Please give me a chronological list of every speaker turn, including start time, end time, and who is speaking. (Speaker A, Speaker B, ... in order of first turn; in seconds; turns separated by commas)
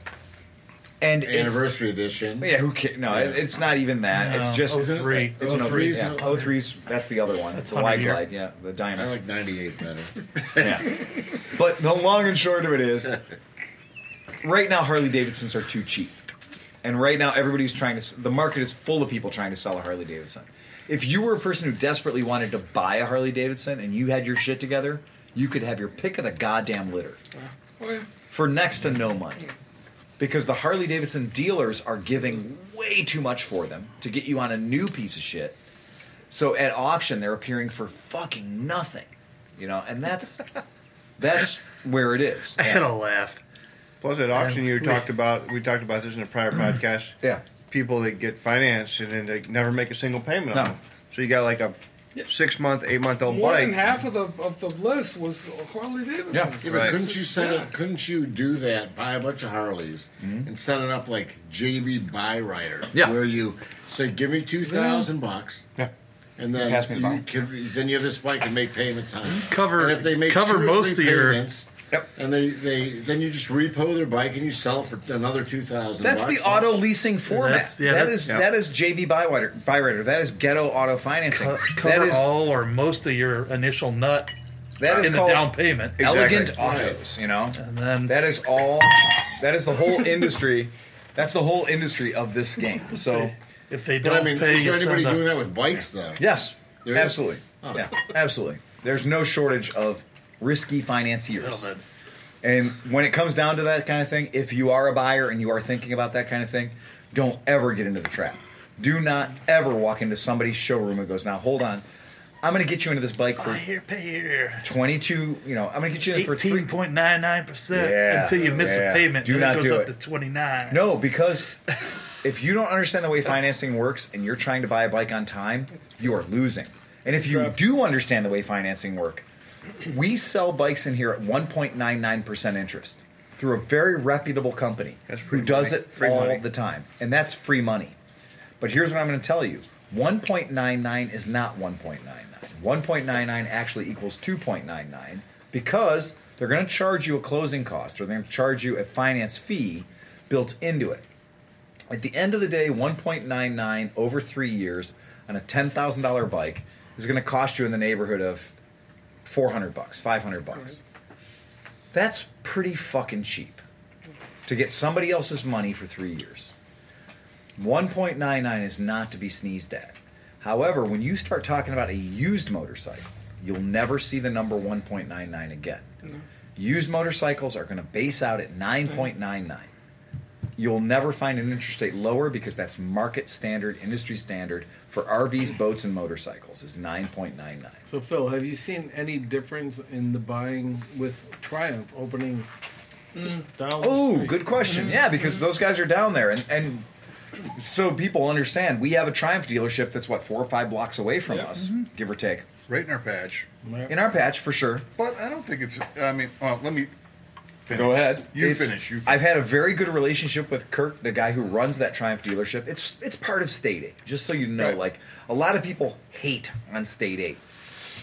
Speaker A: 1.0-1.7, Speaker B: 1.2-3.4, Speaker A: 2.4-9.1, Speaker C: 4.1-6.6, Speaker B: 5.3-6.4, Speaker C: 7.5-8.3, Speaker B: 8.9-11.0, Speaker A: 10.6-13.2, Speaker A: 14.4-16.2, Speaker A: 16.8-27.2, Speaker D: 27.8-28.1, Speaker A: 28.3-29.5, Speaker A: 30.2-35.6, Speaker A: 36.3-40.5, Speaker A: 41.2-42.9, Speaker C: 42.6-43.4, Speaker E: 44.0-47.2, Speaker C: 44.3-45.1, Speaker E: 47.7-54.0, Speaker D: 53.2-57.7, Speaker A: 56.3-57.0, Speaker B: 56.6-65.7, Speaker A: 60.2-60.5, Speaker A: 62.9-63.2, Speaker D: 64.7-65.0, Speaker B: 66.4-76.8, Speaker A: 66.6-67.2, Speaker C: 69.2-71.4, Speaker A: 76.0-82.2, Speaker C: 77.2-78.4, Speaker C: 81.3-84.3, Speaker A: 84.8-93.3, Speaker C: 84.9-86.0, Speaker E: 86.0-87.0, Speaker C: 87.5-88.2, Speaker C: 93.0-95.3, Speaker B: 94.0-96.2, Speaker A: 96.2-101.7, Speaker B: 96.8-98.0, Speaker C: 101.3-101.8, Speaker A: 102.4-111.8, Speaker A: 112.4-113.6, Speaker C: 113.4-114.7, Speaker A: 114.6-116.7, Speaker C: 116.1-120.8, Speaker A: 117.7-119.9, Speaker A: 120.7-121.6, Speaker A: 122.2-129.2, Speaker A: 129.8-137.9, Speaker E: 135.1-136.4, Speaker A: 138.6-151.0, Speaker A: 151.9-158.5, Speaker A: 159.2-160.8, Speaker A: 161.9-163.6, Speaker A: 164.4-166.5, Speaker A: 167.6-175.8, Speaker A: 176.6-179.7, Speaker A: 180.6-187.8, Speaker F: 187.9-192.5, Speaker F: 193.2-194.8, Speaker A: 193.8-196.8, Speaker A: 197.5-202.4, Speaker G: 202.7-203.5, Speaker F: 203.6-203.9, Speaker A: 203.9-204.9, Speaker G: 205.0-206.9, Speaker G: 207.7-209.3, Speaker A: 207.7-217.4